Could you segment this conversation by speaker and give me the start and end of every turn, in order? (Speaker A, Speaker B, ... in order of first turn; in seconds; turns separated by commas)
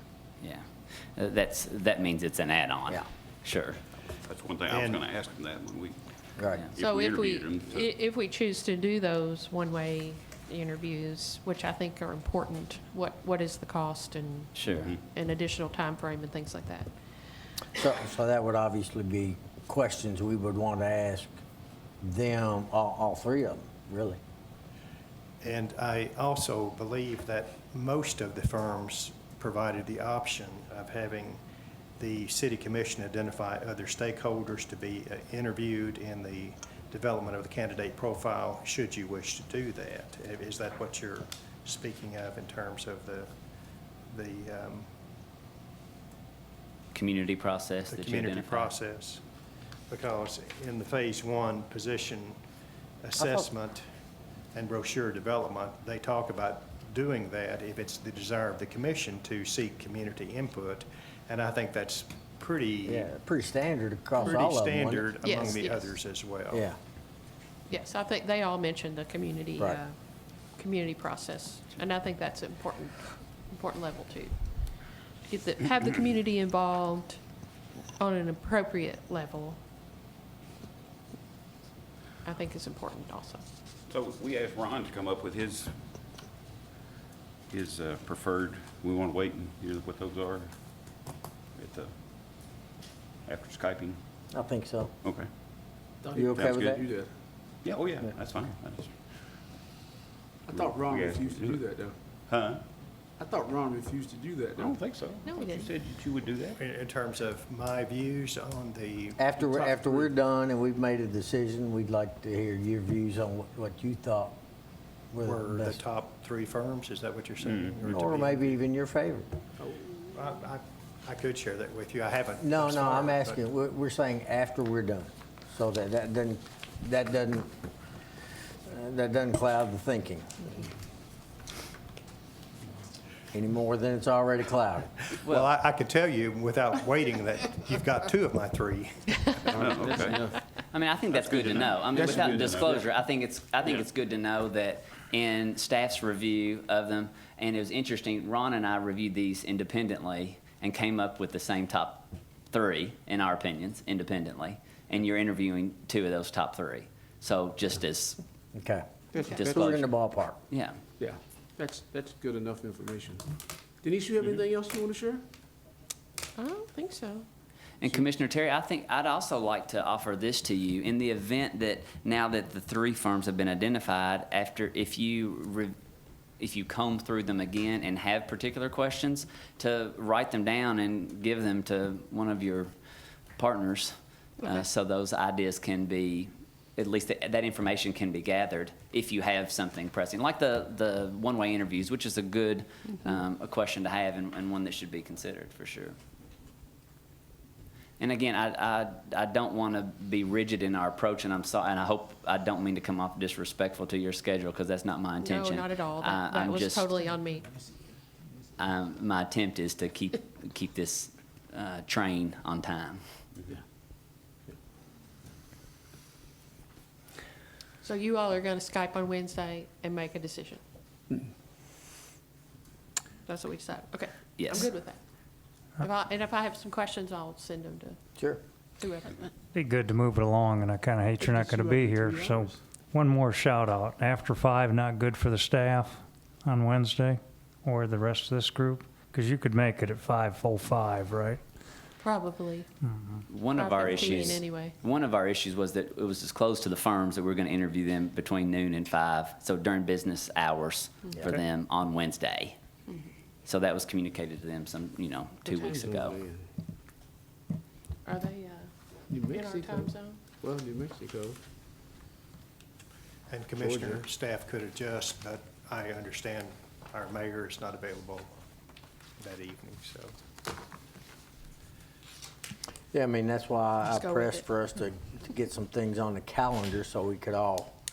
Speaker A: 0.4-3.8, Speaker B: 4.2-6.0, Speaker C: 4.7-5.0, Speaker D: 6.4-6.7, Speaker B: 6.7-7.9, Speaker E: 6.8-16.9, Speaker A: 14.5-14.9, Speaker B: 14.6-15.0, Speaker D: 17.8-21.3, Speaker D: 22.0-24.2, Speaker C: 25.4-31.4, Speaker C: 32.0-43.3, Speaker C: 44.0-44.9, Speaker A: 46.9-48.7, Speaker C: 47.9-49.2, Speaker C: 49.9-52.4, Speaker C: 53.0-53.9, Speaker D: 53.2-53.5, Speaker C: 54.5-63.1, Speaker D: 62.8-65.1, Speaker C: 64.2-66.7, Speaker E: 65.2-66.0, Speaker D: 66.5-66.8, Speaker E: 67.7-70.0, Speaker E: 70.5-74.4, Speaker E: 75.3-77.2, Speaker E: 78.0-79.6, Speaker E: 82.2-83.4, Speaker B: 83.9-85.7, Speaker B: 87.5-90.5, Speaker B: 91.5-91.9, Speaker B: 93.2-94.0, Speaker D: 94.3-94.9, Speaker B: 95.0-95.3, Speaker F: 96.0-97.1, Speaker D: 96.1-96.8, Speaker B: 96.3-96.8, Speaker B: 97.6-99.0, Speaker F: 100.5-102.0, Speaker B: 100.5-101.6, Speaker B: 102.3-102.6, Speaker F: 103.2-104.8, Speaker B: 104.6-106.6, Speaker E: 105.2-105.7, Speaker C: 106.6-109.3, Speaker D: 109.2-114.3, Speaker F: 109.4-110.1, Speaker D: 115.1-115.8, Speaker C: 115.2-118.6, Speaker D: 117.9-119.2, Speaker F: 119.6-119.9, Speaker C: 120.1-123.4, Speaker D: 122.4-127.5, Speaker D: 128.7-130.5, Speaker D: 133.3-134.9, Speaker A: 135.2-135.5, Speaker C: 135.2-139.8, Speaker F: 139.4-140.3, Speaker B: 139.6-140.2, Speaker A: 139.9-158.2, Speaker F: 141.2-142.9, Speaker B: 141.4-142.7, Speaker D: 158.5-158.8, Speaker F: 159.1-159.7, Speaker A: 159.2-159.9, Speaker D: 159.3-160.4, Speaker A: 160.5-160.8, Speaker F: 161.0-163.2, Speaker F: 163.8-165.2, Speaker E: 166.3-167.3, Speaker A: 167.8-175.7, Speaker A: 176.4-182.7, Speaker A: 183.4-196.0, Speaker E: 184.4-184.7, Speaker A: 198.0-206.9, Speaker E: 205.2-207.5, Speaker A: 208.6-213.2, Speaker E: 217.8-220.6, Speaker E: 223.2-225.0, Speaker A: 224.4-224.7, Speaker E: 225.8-228.0, Speaker E: 228.8-229.3, Speaker G: 229.5-241.4, Speaker F: 231.2-232.6, Speaker E: 242.0-242.7, Speaker G: 242.8-243.2, Speaker A: 243.3-252.6, Speaker E: 243.5-244.8, Speaker A: 253.4-256.2, Speaker F: 255.5-256.5, Speaker E: 255.5-255.8, Speaker E: 258.1-260.2, Speaker F: 259.1-261.4, Speaker C: 263.3-268.3, Speaker F: 263.6-264.0, Speaker C: 269.2-270.2, Speaker D: 272.9-277.7, Speaker E: 273.9-274.4